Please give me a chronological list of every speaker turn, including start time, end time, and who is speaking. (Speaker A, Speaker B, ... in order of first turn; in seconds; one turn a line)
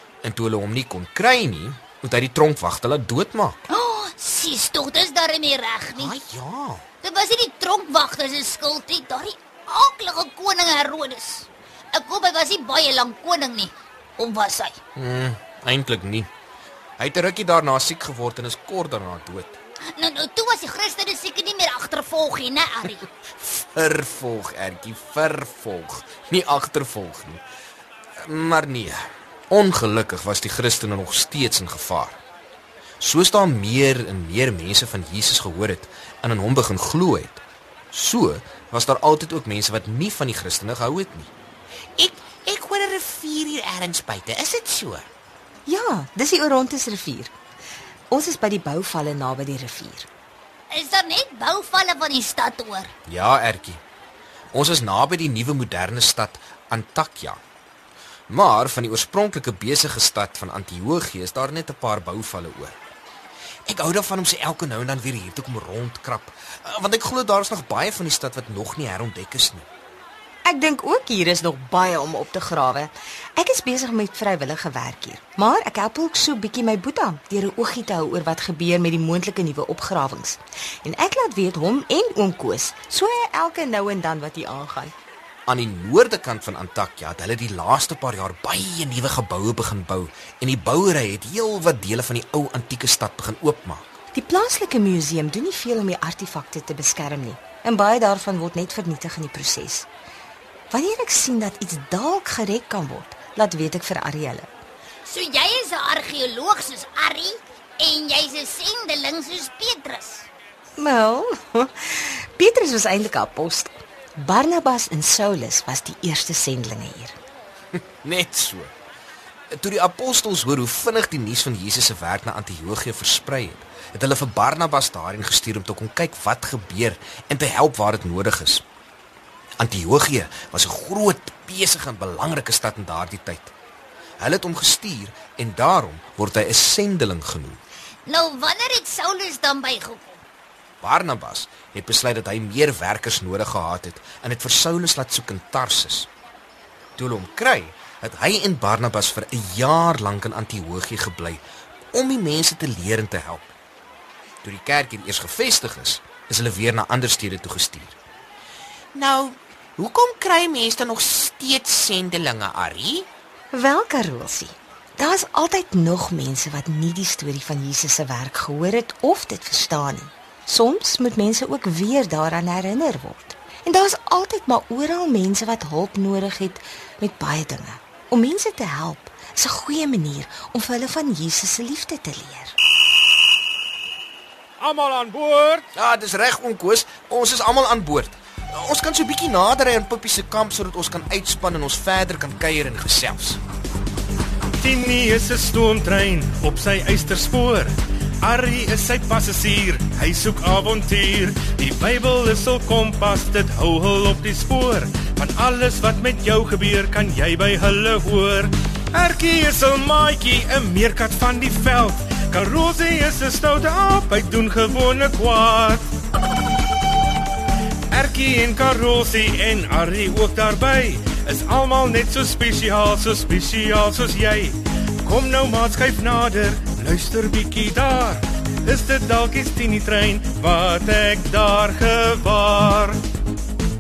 Speaker A: 0.2-3.6
Speaker B: 3.7-6.2
Speaker A: 6.0-6.8
Speaker B: 7.0-14.8
Speaker A: 15.0-16.3
Speaker A: 17.0-19.6
Speaker B: 19.9-23.1
Speaker A: 23.4-27.4
Speaker A: 28.2-32.2
Speaker A: 33.0-37.4
Speaker A: 37.9-41.3
Speaker C: 42.0-45.1
Speaker D: 45.7-47.3
Speaker D: 48.1-50.1
Speaker B: 50.7-52.9
Speaker A: 53.1-53.8
Speaker A: 54.5-57.4
Speaker A: 58.3-62.8
Speaker A: 63.7-69.7
Speaker D: 70.5-84.9
Speaker A: 85.5-93.9
Speaker D: 94.1-99.9
Speaker D: 100.7-104.5
Speaker B: 105.1-110.3
Speaker D: 110.8-117.2
Speaker A: 118.0-118.7
Speaker A: 119.5-128.6
Speaker A: 129.6-133.5
Speaker A: 134.2-137.6
Speaker B: 138.1-140.2
Speaker A: 140.8-146.1
Speaker A: 147.0-153.5
Speaker A: 154.4-158.0
Speaker C: 158.9-163.1
Speaker D: 163.5-182.6
Speaker E: 184.6-185.7
Speaker A: 185.8-193.4
Speaker E: 194.6-215.8
Speaker E: 217.9-233.0